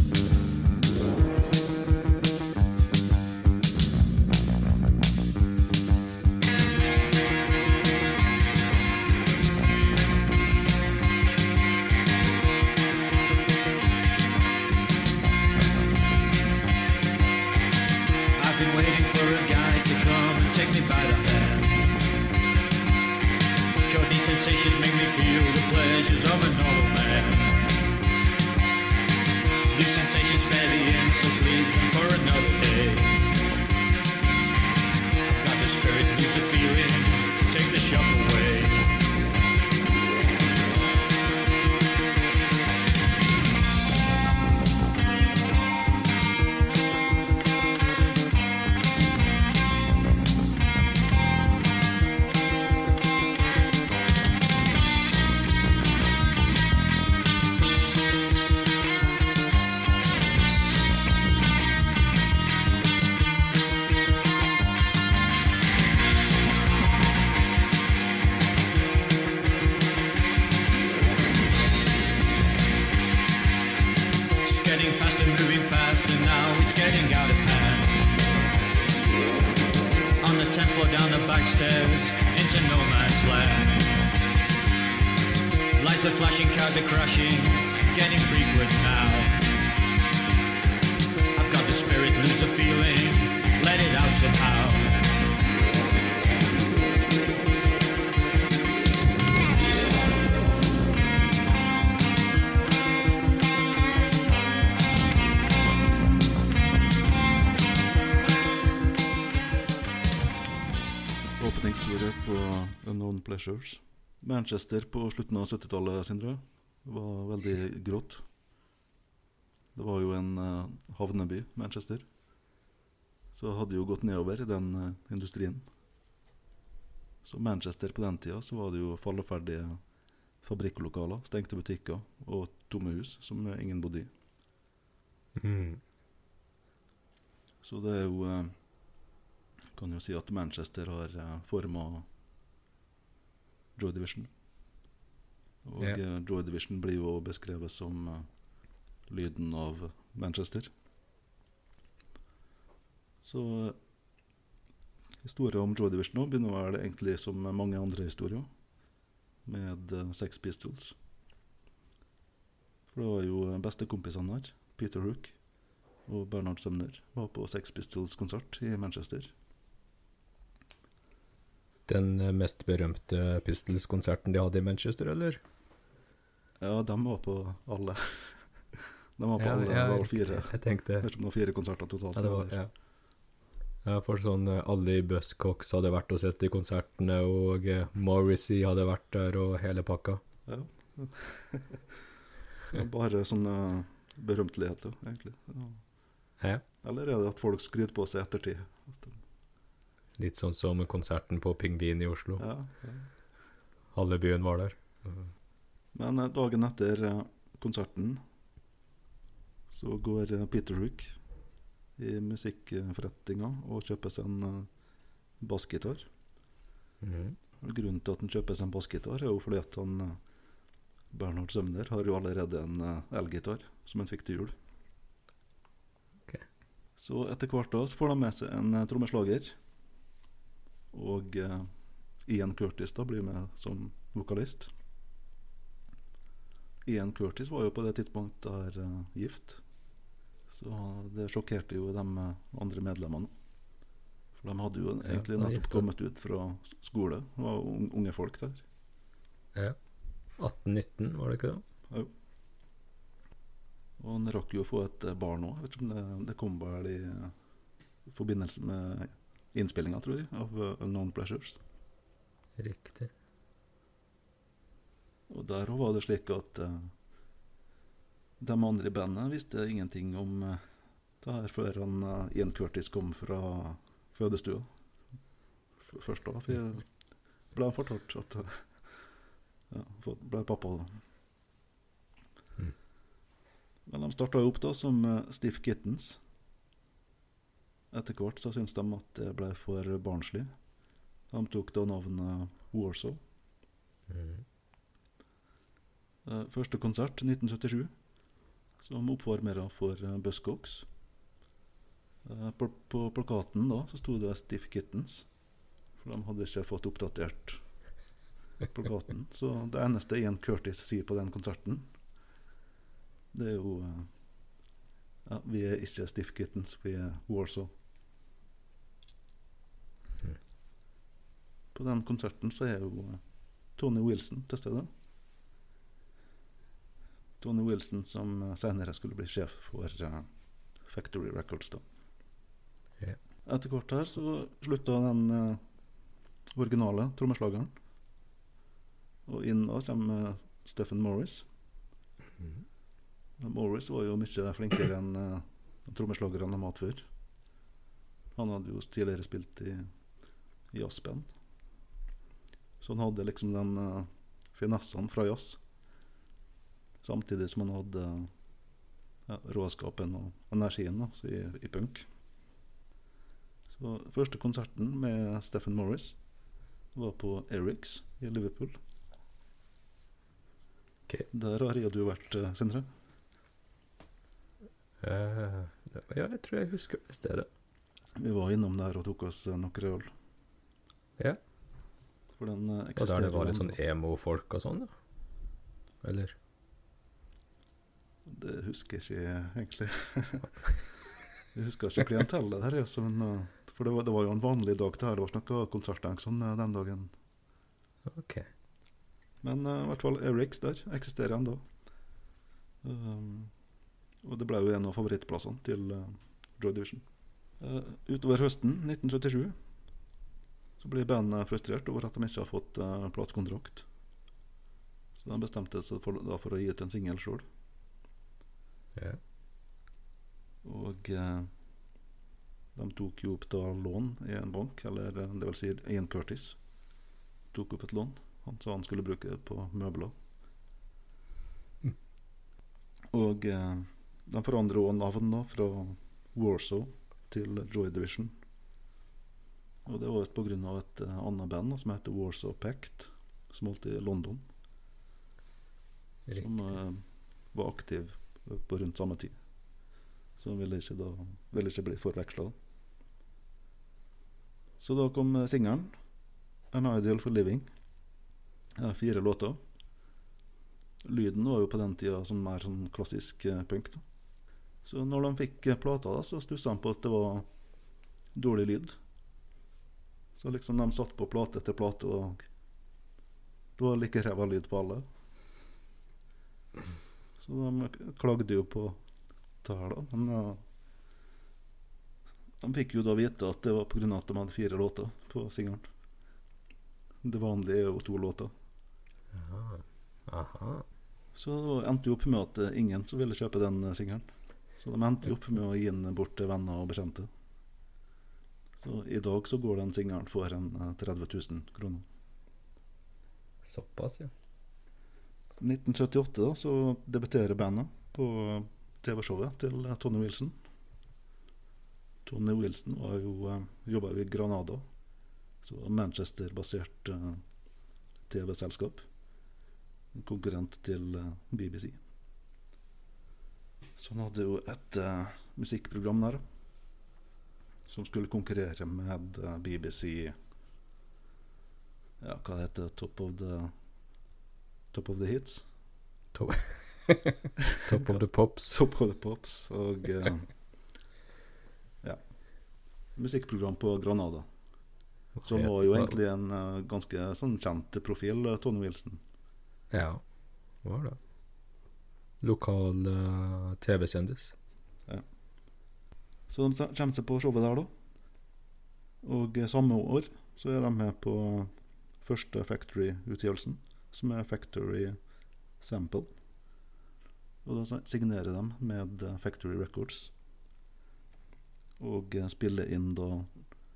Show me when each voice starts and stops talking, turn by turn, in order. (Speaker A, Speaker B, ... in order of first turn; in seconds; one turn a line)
Speaker A: 18.4-21.9
Speaker A: 23.9-27.7
Speaker A: 29.7-33.2
Speaker A: 35.2-38.8
Speaker A: 74.4-78.0
Speaker A: 80.2-83.9
Speaker A: 85.8-89.4
Speaker A: 91.3-95.0
Speaker B: 111.4-118.2
Speaker B: 119.7-122.1
Speaker B: 123.3-125.7
Speaker B: 127.2-129.8
Speaker B: 130.4-134.1
Speaker C: 135.3-135.8
Speaker B: 137.6-138.5
Speaker B: 139.7-142.1
Speaker B: 143.8-144.3
Speaker B: 145.6-148.3
Speaker B: 149.1-150.7
Speaker B: 153.2-153.8
Speaker B: 155.2-158.5
Speaker B: 159.4-160.9
Speaker B: 162.9-165.4
Speaker B: 166.1-169.3
Speaker C: 171.9-175.4
Speaker B: 176.6-182.6
Speaker C: 179.4-181.1
Speaker C: 182.1-182.7
Speaker C: 183.8-190.2
Speaker B: 190.5-191.8
Speaker B: 192.7-195.8
Speaker B: 196.8-199.2
Speaker C: 200.2-202.4
Speaker B: 202.4-203.1
Speaker C: 203.9-205.2
Speaker B: 205.9-208.2
Speaker B: 209.7-211.2
Speaker B: 212.0-214.7
Speaker B: 215.4-216.1
Speaker C: 217.0-217.4
Speaker B: 217.6-220.2
Speaker B: 221.1-224.5
Speaker B: 227.0-229.6
Speaker B: 230.9-231.7
Speaker B: 232.2-234.7
Speaker B: 236.8-239.6
Speaker B: 240.5-243.3
Speaker B: 244.4-248.6
Speaker C: 245.0-245.8
Speaker C: 249.5-249.8
Speaker C: 250.4-251.6
Speaker B: 254.0-257.3
Speaker B: 258.1-261.6
Speaker C: 262.6-263.1
Speaker B: 265.3-266.9
Speaker B: 268.4-270.6
Speaker B: 271.2-274.7
Speaker B: 275.9-276.9
Speaker B: 277.5-279.0
Speaker B: 279.7-281.0
Speaker B: 283.9-286.2
Speaker B: 287.9-290.5
Speaker B: 291.3-293.2
Speaker C: 294.1-294.4
Speaker B: 296.2-297.9
Speaker B: 298.8-300.9
Speaker B: 302.2-305.3
Speaker B: 306.0-307.6
Speaker B: 308.7-311.9
Speaker B: 313.3-314.1
Speaker B: 315.2-317.7
Speaker B: 321.7-323.2
Speaker B: 323.7-324.9
Speaker B: 327.4-331.8
Speaker B: 333.4-335.6
Speaker B: 336.5-337.7
Speaker B: 339.3-341.5
Speaker B: 343.4-347.1
Speaker B: 348.4-349.9
Speaker B: 350.7-351.3
Speaker B: 352.8-355.6
Speaker B: 357.0-358.3
Speaker B: 359.3-362.1
Speaker B: 363.7-366.2
Speaker B: 366.9-368.8
Speaker B: 371.3-372.9
Speaker C: 375.0-377.5
Speaker B: 378.1-380.1
Speaker B: 382.4-383.8
Speaker C: 382.9-384.9
Speaker C: 386.0-386.3
Speaker B: 388.2-390.7
Speaker B: 391.5-397.1
Speaker C: 398.1-398.5
Speaker B: 399.4-401.7
Speaker B: 402.8-403.5
Speaker B: 404.2-407.0
Speaker B: 407.6-409.6
Speaker B: 410.8-413.9
Speaker B: 415.2-417.4
Speaker B: 420.6-421.5
Speaker B: 422.7-426.6
Speaker B: 427.5-430.1
Speaker B: 433.1-438.3
Speaker B: 439.8-444.5
Speaker C: 446.3-446.7
Speaker B: 446.3-449.4
Speaker B: 450.4-452.5
Speaker B: 454.8-455.9
Speaker B: 456.7-457.7
Speaker B: 458.8-459.6
Speaker B: 461.0-464.0
Speaker B: 464.8-467.5
Speaker B: 468.3-469.0
Speaker B: 470.4-472.4
Speaker B: 473.8-475.0
Speaker B: 477.4-479.0
Speaker B: 479.6-480.6
Speaker B: 482.6-485.9
Speaker B: 487.2-488.5
Speaker C: 489.3-490.9
Speaker B: 491.3-497.3
Speaker B: 498.8-502.0
Speaker C: 503.6-504.3
Speaker B: 505.6-510.5
Speaker B: 512.2-514.8
Speaker B: 515.6-517.4
Speaker B: 518.3-519.1
Speaker B: 520.1-522.0
Speaker B: 524.0-526.4
Speaker B: 527.9-530.3
Speaker B: 532.2-533.7
Speaker B: 534.9-535.6
Speaker C: 536.3-538.8
Speaker B: 537.9-540.5
Speaker B: 542.0-542.3
Speaker B: 543.1-544.5
Speaker C: 545.4-546.2
Speaker B: 545.4-549.2
Speaker C: 549.9-550.2
Speaker C: 550.8-551.2
Speaker C: 552.4-554.5
Speaker B: 556.5-557.9
Speaker B: 559.2-565.2
Speaker B: 565.8-566.3
Speaker B: 567.6-570.3
Speaker B: 572.0-573.7